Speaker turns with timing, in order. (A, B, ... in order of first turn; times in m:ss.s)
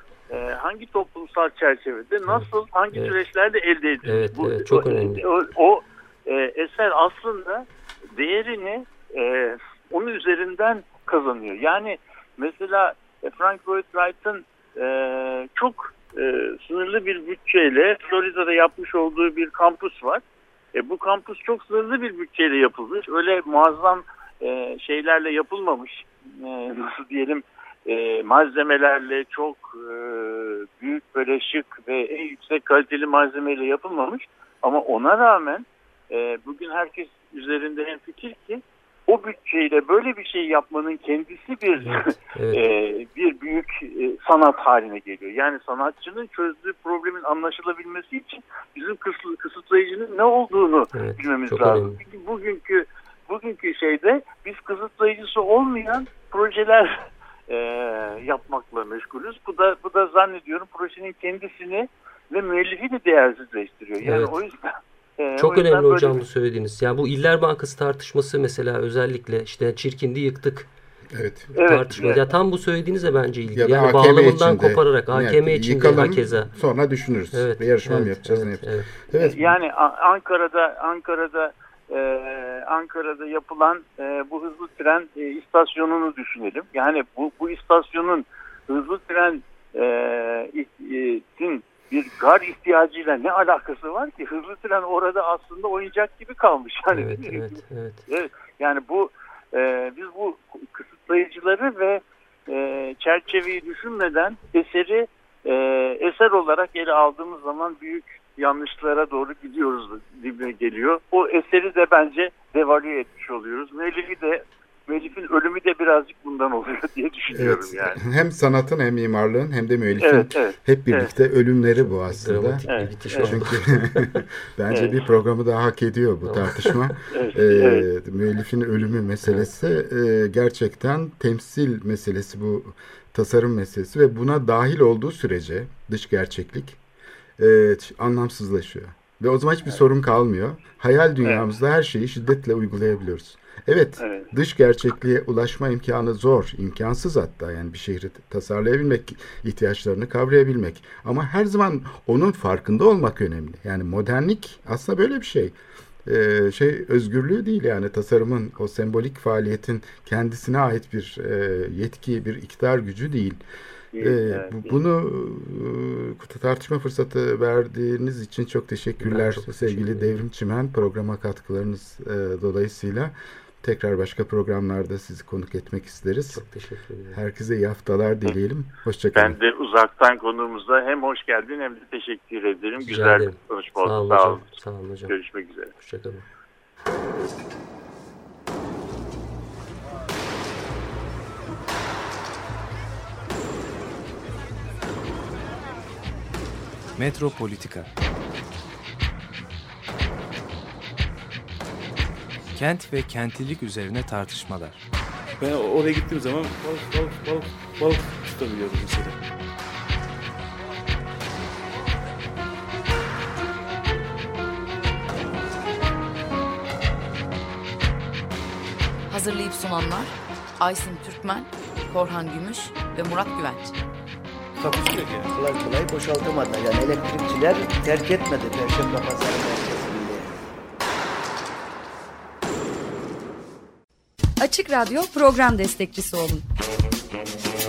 0:00.3-0:20.2 A
0:02.3-0:03.2 B
0:04.0-0:05.2 B
0:20.8-1:06.2 A
0:41.8-0:42.6 B
0:50.9-0:52.0 B
1:04.0-1:04.4 B
1:05.4-1:10.7 B
1:11.1-1:11.5 C
1:11.6-1:12.2 A
1:11.6-1:16.5 B
1:13.5-1:19.5 C
1:17.3-1:18.9 B
1:19.2-1:58.0 A
1:36.9-1:38.0 B
1:57.3-2:16.8 C
2:00.0-2:01.1 A
2:02.1-2:03.8 B
2:02.7-2:03.4 A
2:04.7-2:05.0 A
2:06.2-2:06.8 B
2:07.1-2:07.9 A
2:09.2-2:09.5 B
2:17.4-2:43.4 C
2:24.0-2:24.3 A
2:43.9-2:44.8 A
2:44.0-2:56.4 C
2:49.0-2:50.1 B
2:56.3-2:57.2 B
2:57.1-2:59.4 C
2:59.1-3:04.5 A
3:02.8-3:05.1 B
3:05.1-3:05.7 A
3:05.8-3:06.3 B
3:17.0-3:17.9 D
3:22.5-3:24.8 D
3:25.4-3:29.2 E
3:39.1-3:43.7 F
3:44.6-3:45.3 E
3:45.3-3:50.4 G
3:54.4-3:56.4 H